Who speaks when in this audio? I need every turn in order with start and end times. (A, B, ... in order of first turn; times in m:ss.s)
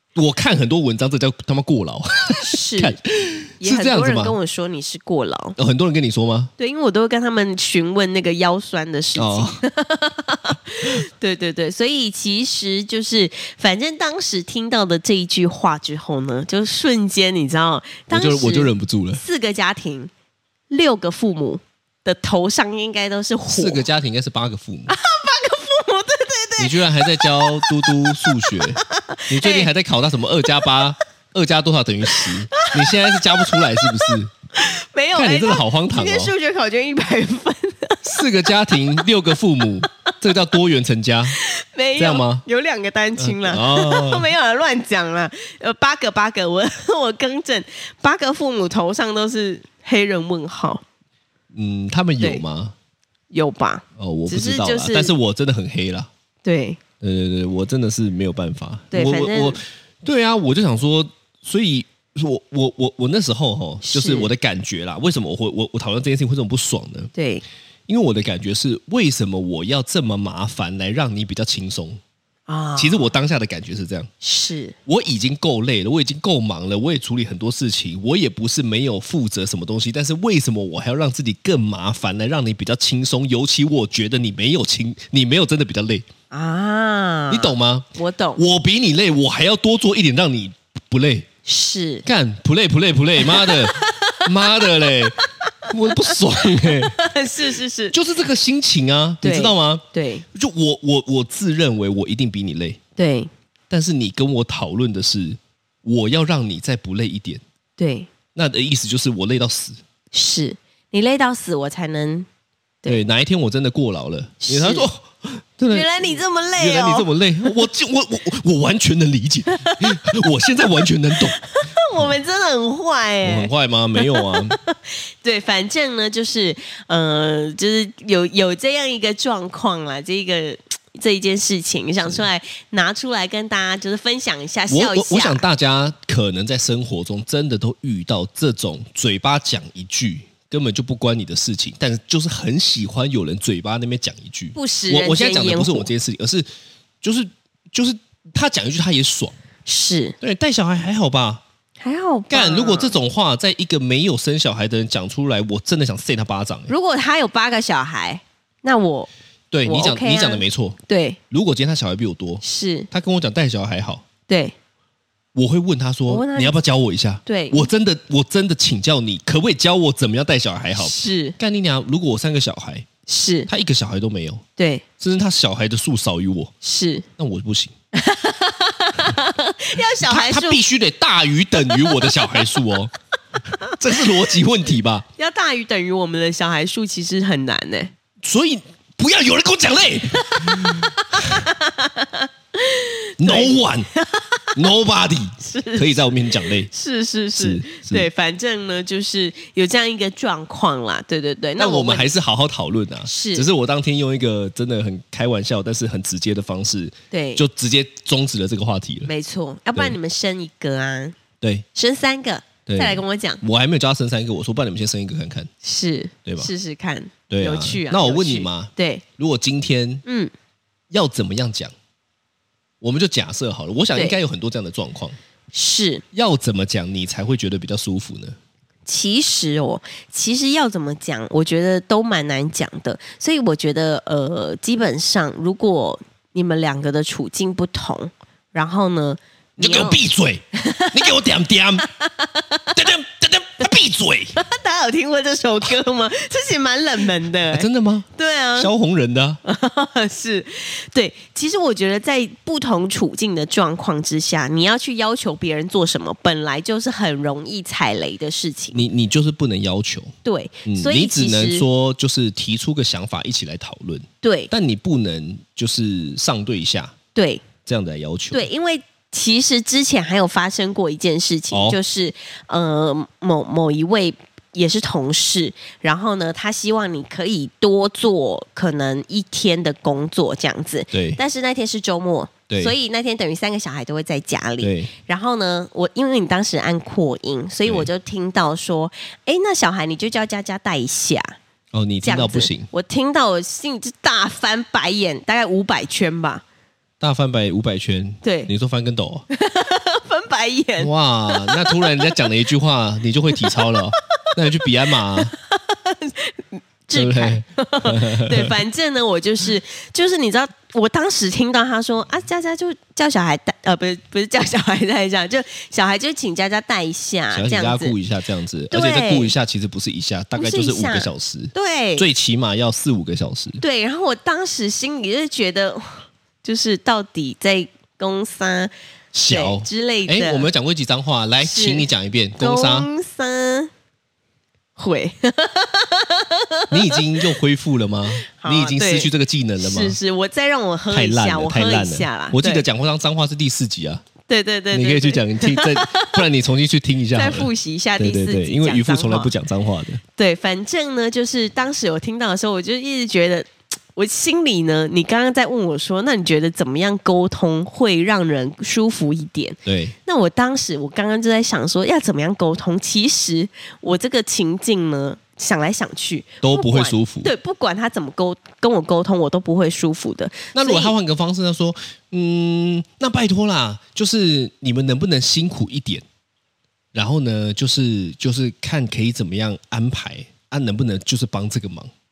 0:00.1-0:04.4 A
0:02.3-0:03.0 B
0:03.6-0:05.6 B
0:05.6-0:06.5 A
0:06.6-0:20.1 B
0:09.1-0:09.6 A
0:18.1-0:19.2 A
0:20.7-0:23.8 B
0:23.5-0:24.9 A
0:24.9-0:29.7 B
0:26.6-0:34.3 A
0:30.5-0:30.8 B
0:32.1-0:39.0 B
0:35.1-0:36.3 A
0:38.1-0:41.4 A
0:41.3-0:50.8 B
0:42.0-0:42.4 A
0:43.2-0:44.3 A
0:51.5-0:52.7 A
0:53.3-0:55.1 B
0:54.0-0:56.1 A
0:56.4-0:56.8 B
0:57.0-1:07.1 A
0:58.9-0:59.6 B
1:03.8-1:04.3 B
1:07.1-1:07.4 B
1:07.9-1:12.0 A
1:12.5-1:13.1 B
1:12.8-1:14.1 A
1:14.2-1:14.7 B
1:14.8-1:26.0 A
1:26.3-1:28.4 B
1:27.3-1:31.3 A
1:31.4-1:32.0 B
1:32.0-1:36.9 A
1:33.2-1:34.5 B
1:35.5-1:37.9 B
1:37.9-1:42.8 A
1:39.2-1:40.2 B
1:43.0-1:43.3 B
1:43.7-1:47.4 A
1:47.8-1:48.1 B
1:48.3-1:49.8 A
1:50.1-1:52.3 B
1:52.9-1:56.0 A
1:54.4-1:54.9 B
1:55.7-1:57.1 B
1:56.6-2:01.4 A
1:59.5-2:00.0 B
2:01.4-2:15.4 B
2:03.2-2:04.6 A
2:14.7-2:26.5 A
2:24.5-2:25.9 B
2:27.0-2:29.3 A
2:29.6-2:30.2 B
2:30.2-2:31.4 A
2:31.8-2:32.9 B
2:32.3-2:36.7 A
2:36.7-2:39.1 B
2:39.5-2:40.8 A
2:39.6-2:41.2 B
2:41.3-2:44.0 A
2:42.4-2:42.9 B
2:44.3-2:44.5 B
2:45.3-2:52.8 A
2:46.1-2:46.5 B
2:47.2-2:47.7 B
2:50.8-2:51.4 B
2:53.1-2:53.5 B
2:53.5-2:54.4 A
2:54.6-2:54.8 B
2:55.0-2:56.5 A
2:56.6-2:57.0 B
2:57.2-2:57.7 A
2:57.9-3:00.6 B
3:00.0-3:02.9 A
3:01.7-3:02.3 B
3:03.7-3:05.0 A
3:05.2-3:07.9 B
3:08.2-3:11.5 A
3:10.1-3:14.5 B
3:13.2-3:13.9 A
3:14.5-3:16.7 A
3:15.4-3:22.1 B
3:17.4-3:18.1 A
3:21.6-3:29.1 A
3:23.0-3:23.5 B
3:27.1-3:27.4 B
3:29.0-3:31.2 B
3:31.4-3:31.6 A
3:31.7-3:33.4 B
3:32.7-3:35.5 A
3:35.6-3:39.0 B
3:36.2-3:36.5 A
3:37.3-3:40.0 A
3:40.0-3:40.3 B
3:40.9-3:41.7 A
3:42.8-3:45.2 A
3:45.5-3:46.0 B
3:46.1-3:48.4 A
3:48.8-4:00.0 B
3:59.6-4:01.9 A
4:00.5-4:01.1 B
4:02.0-4:02.9 B
4:02.7-4:04.3 A
4:04.3-4:08.7 B
4:07.5-4:09.4 A
4:09.4-4:18.8 B
4:18.7-4:20.1 A
4:20.2-4:21.6 B
4:20.6-4:26.9 A
4:24.2-4:24.5 B
4:27.1-4:27.4 B
4:27.6-4:28.5 A
4:28.3-4:51.4 B
4:31.5-4:31.8 A
4:40.9-4:41.2 A
4:42.5-4:42.7 A
4:44.6-4:44.9 A
4:51.7-4:52.7 A
4:52.0-4:56.4 B
4:57.0-4:59.2 A
4:58.2-4:58.5 B
4:59.3-5:02.2 B
5:00.8-5:05.3 A
5:03.4-5:03.8 B
5:04.6-5:17.9 B
5:06.9-5:08.6 A
5:17.3-5:23.6 A
5:18.7-5:19.3 B
5:20.4-5:22.1 B
5:23.6-5:28.7 B
5:29.1-5:32.9 A
5:29.3-5:30.5 B
5:31.4-5:33.7 B
5:34.8-5:37.2 B
5:36.7-5:40.0 A
5:38.2-5:42.6 B
5:40.9-5:44.0 A
5:44.3-5:46.2 B
5:44.7-5:50.0 A
5:47.1-5:49.3 B
5:50.2-6:10.9 B
5:59.6-5:59.9 A
6:06.4-6:07.3 A
6:10.5-6:16.0 A
6:16.9-6:21.9 A